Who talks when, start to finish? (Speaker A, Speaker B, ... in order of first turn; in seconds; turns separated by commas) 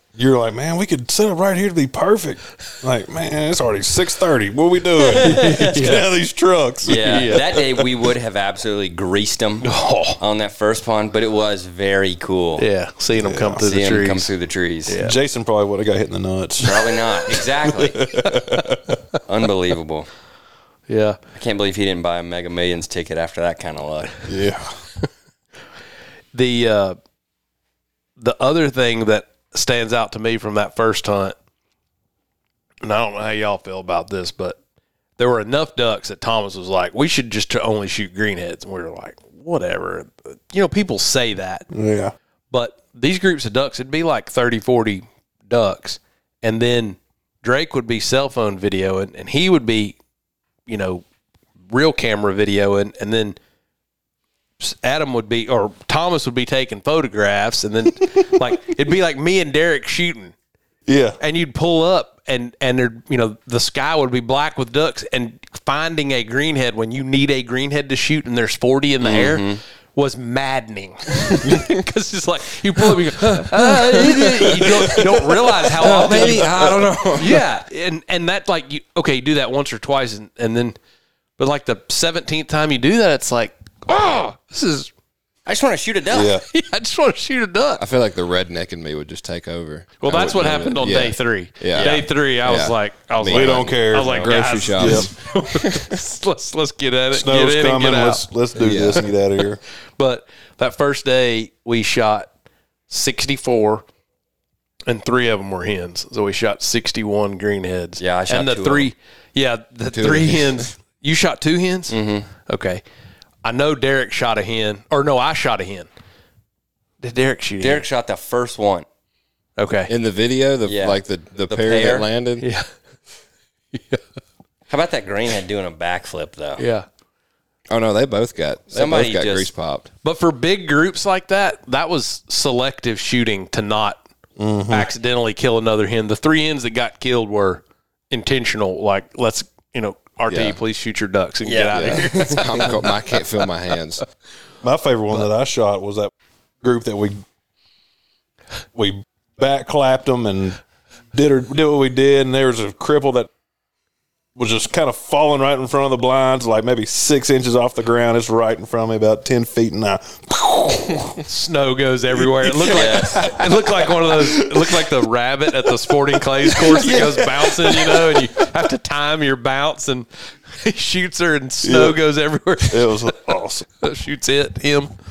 Speaker A: 0.1-7.4, Speaker B: 5.0-6.0, Speaker C: 5.1-6.1, Speaker B: 6.8-12.6, Speaker C: 6.9-7.6, Speaker C: 9.6-10.2, Speaker C: 12.6-14.3, Speaker A: 13.1-13.6, Speaker B: 13.6-15.0, Speaker C: 14.8-15.2, Speaker A: 15.0-18.9, Speaker B: 16.6-18.1, Speaker B: 19.2-20.1, Speaker C: 20.9-21.2, Speaker B: 21.3-24.2, Speaker A: 24.3-24.7, Speaker C: 26.3-27.0, Speaker C: 28.2-31.3, Speaker C: 32.8-34.6, Speaker C: 35.2-41.7, Speaker A: 41.7-42.1, Speaker C: 42.5-50.0, Speaker C: 50.7-51.0, Speaker C: 51.7-53.4, Speaker C: 54.6-60.3, Speaker A: 60.9-61.2, Speaker C: 61.2-80.8, Speaker B: 69.0-69.6, Speaker D: 71.4-71.7, Speaker D: 73.3-77.4, Speaker C: 81.4-84.9, Speaker B: 85.5-86.4, Speaker A: 86.1-86.4, Speaker C: 86.5-87.8, Speaker D: 87.8-95.9, Speaker C: 90.0-98.2, Speaker B: 91.7-92.0, Speaker A: 93.3-94.2, Speaker A: 94.8-95.1, Speaker A: 97.1-99.6, Speaker D: 98.5-99.1, Speaker C: 100.0-102.3, Speaker C: 102.9-103.8, Speaker C: 104.9-112.8, Speaker B: 108.0-108.9, Speaker D: 109.9-110.7, Speaker B: 111.9-112.3, Speaker C: 113.4-115.9, Speaker C: 117.0-117.8, Speaker B: 117.6-118.8, Speaker C: 119.6-119.9, Speaker D: 119.9-122.5, Speaker B: 120.7-122.1, Speaker C: 122.4-122.7, Speaker C: 123.7-124.0, Speaker B: 124.7-126.6, Speaker C: 126.6-126.8, Speaker D: 127.7-129.9, Speaker B: 128.7-129.5, Speaker C: 130.0-134.0, Speaker A: 134.4-134.9, Speaker C: 134.7-142.9, Speaker D: 140.3-140.6, Speaker B: 141.4-142.7, Speaker D: 141.7-144.0, Speaker A: 144.6-146.1, Speaker A: 146.6-147.2, Speaker A: 148.7-150.6, Speaker A: 151.1-153.3, Speaker A: 154.3-161.2, Speaker C: 161.2-173.1, Speaker A: 162.2-164.8, Speaker B: 162.7-163.3, Speaker A: 166.4-168.3, Speaker A: 171.6-172.0, Speaker A: 172.6-173.7, Speaker C: 173.8-174.9